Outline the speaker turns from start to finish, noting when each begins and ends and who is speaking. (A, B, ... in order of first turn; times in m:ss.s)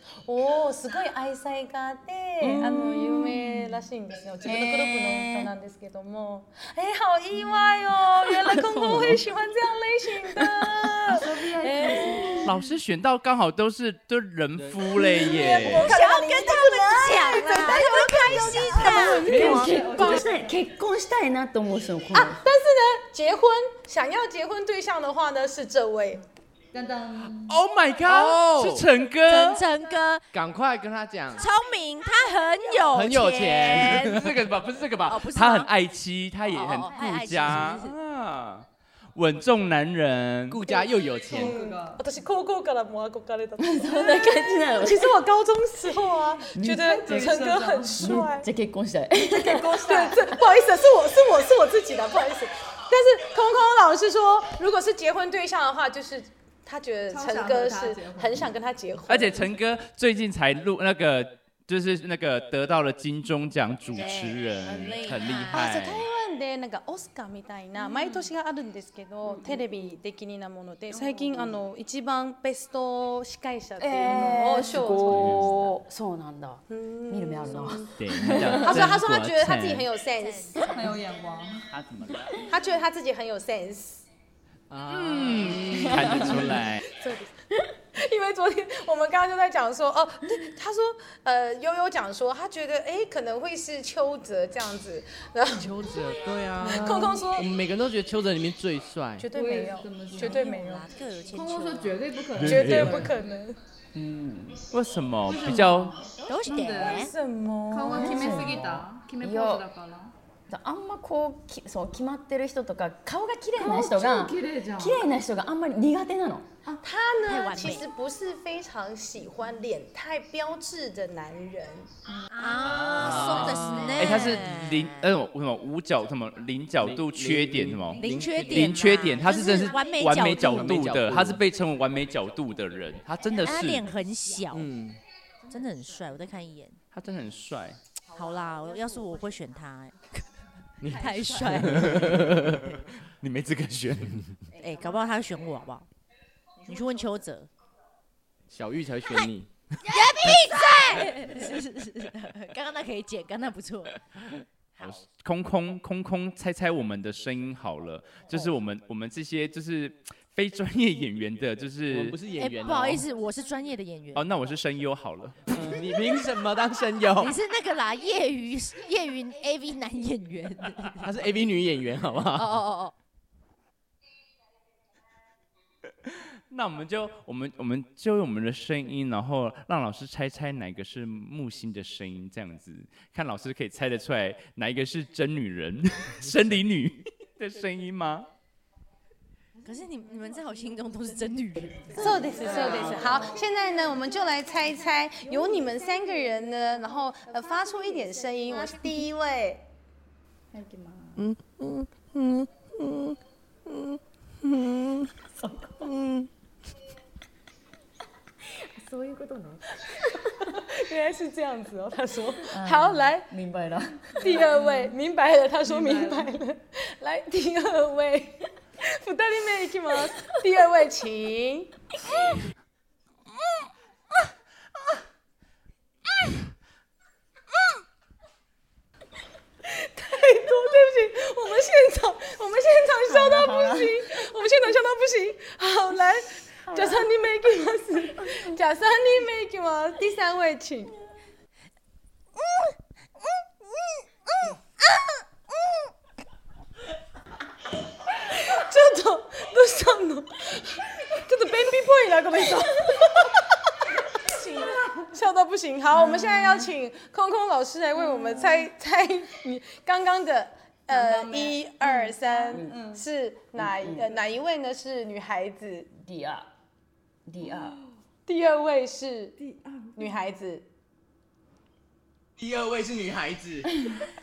0:00.3-0:12.5 A
0:02.4-0:03.7 B
0:04.4-0:05.5 B
0:08.3-0:09.2 B
0:10.2-0:12.5 B
0:11.1-0:12.7 C
0:12.4-0:16.0 D
0:14.6-0:15.0 E
0:15.0-0:20.2 A
0:15.5-0:19.3 F
0:18.8-0:22.4 B
0:18.9-0:20.6 C
0:19.3-0:19.7 E
0:22.1-0:26.3 A
0:26.7-0:27.6 C
0:27.3-0:29.6 D
0:28.0-0:28.9 E
0:29.2-0:30.2 F
0:30.3-0:31.5 E
0:31.3-0:34.2 F
0:32.9-0:34.4 E
0:33.6-0:40.6 D
0:35.1-0:35.7 F
0:36.5-0:38.0 F
0:37.0-0:37.5 C
0:40.5-0:41.6 E
0:40.7-0:48.5 A
0:41.3-0:42.0 C
0:43.6-0:45.2 B
0:46.6-0:50.1 B
0:46.7-0:48.2 C
0:49.2-0:50.3 C
0:49.8-0:59.6 A
0:57.1-0:58.5 C
0:59.1-1:06.1 D
1:03.9-1:05.7 F
1:05.5-1:15.8 A
1:07.9-1:08.2 C
1:13.8-1:18.8 B
1:15.1-1:15.4 E
1:16.7-1:20.9 A
1:18.0-1:19.9 E
1:20.2-1:20.8 F
1:20.6-1:21.7 C
1:21.7-1:22.4 D
1:22.5-1:24.1 A
1:24.7-1:26.6 E
1:24.9-1:26.8 D
1:25.3-1:27.3 A
1:28.0-1:35.8 A
1:35.5-1:39.3 E
1:36.6-1:37.5 A
1:36.6-1:37.3 C
1:39.2-1:40.9 A
1:39.3-1:40.6 C
1:40.2-1:42.0 F
1:41.3-1:43.1 C
1:42.4-1:43.1 D
1:42.4-1:43.6 A
1:44.0-1:44.7 B
1:44.7-1:46.0 D
1:45.3-1:47.1 C
1:46.2-1:47.1 F
1:46.8-1:48.6 A
1:47.7-1:50.1 C
1:47.9-1:49.7 B
1:50.5-1:56.5 B
1:53.6-1:55.1 C
1:56.8-2:01.9 A
1:57.2-1:57.9 F
2:02.2-2:02.8 C
2:02.3-2:05.1 F
2:02.7-2:13.9 D
2:03.0-2:03.6 E
2:06.8-2:09.2 E
2:08.0-2:11.0 F
2:10.2-2:11.4 E
2:13.4-2:14.7 F
2:14.5-2:15.0 E
2:15.5-2:16.8 F
2:16.9-2:17.8 D
2:18.1-2:20.3 F
2:20.8-2:22.8 E
2:20.8-2:22.2 F
2:21.1-2:22.0 C
2:22.0-2:24.3 D
2:24.6-2:25.9 F
2:26.6-2:27.5 F
2:28.5-2:30.3 E
2:29.8-2:34.0 F
2:34.8-2:42.2 D
2:41.9-2:43.1 E
2:42.4-2:44.3 F
2:44.2-2:45.7 D
2:45.5-2:47.4 E
2:47.2-2:51.1 F
2:51.0-2:52.6 E
2:52.4-2:52.9 F
2:56.5-3:08.3 D
3:09.6-3:12.3 F
3:11.9-3:19.7 A
3:12.0-3:13.4 C
3:15.4-3:16.1 C
3:17.5-3:18.7 C
3:20.5-3:21.3 C
3:21.2-3:25.1 E
3:25.8-3:26.3 E
3:28.8-3:29.6 B
3:30.5-3:33.3 A
3:32.5-3:34.6 B
3:34.2-3:41.9 A
3:34.2-3:34.9 C
3:35.6-3:36.3 C
3:49.6-4:01.0 A
3:53.0-3:54.1 B
3:56.6-3:57.1 B
4:02.4-4:02.7 F
4:03.6-4:05.8 F
4:08.2-4:13.4 A
4:14.2-4:25.9 A
4:16.0-4:16.7 C
4:18.2-4:18.6 C
4:21.1-4:23.0 C
4:22.5-4:22.8 B
4:23.6-4:24.1 B
4:25.9-4:26.5 B
4:27.3-4:27.8 B
4:27.4-4:27.7 C
4:28.3-4:29.4 A
4:29.4-4:30.1 C
4:30.0-4:30.7 A
4:32.4-4:33.8 E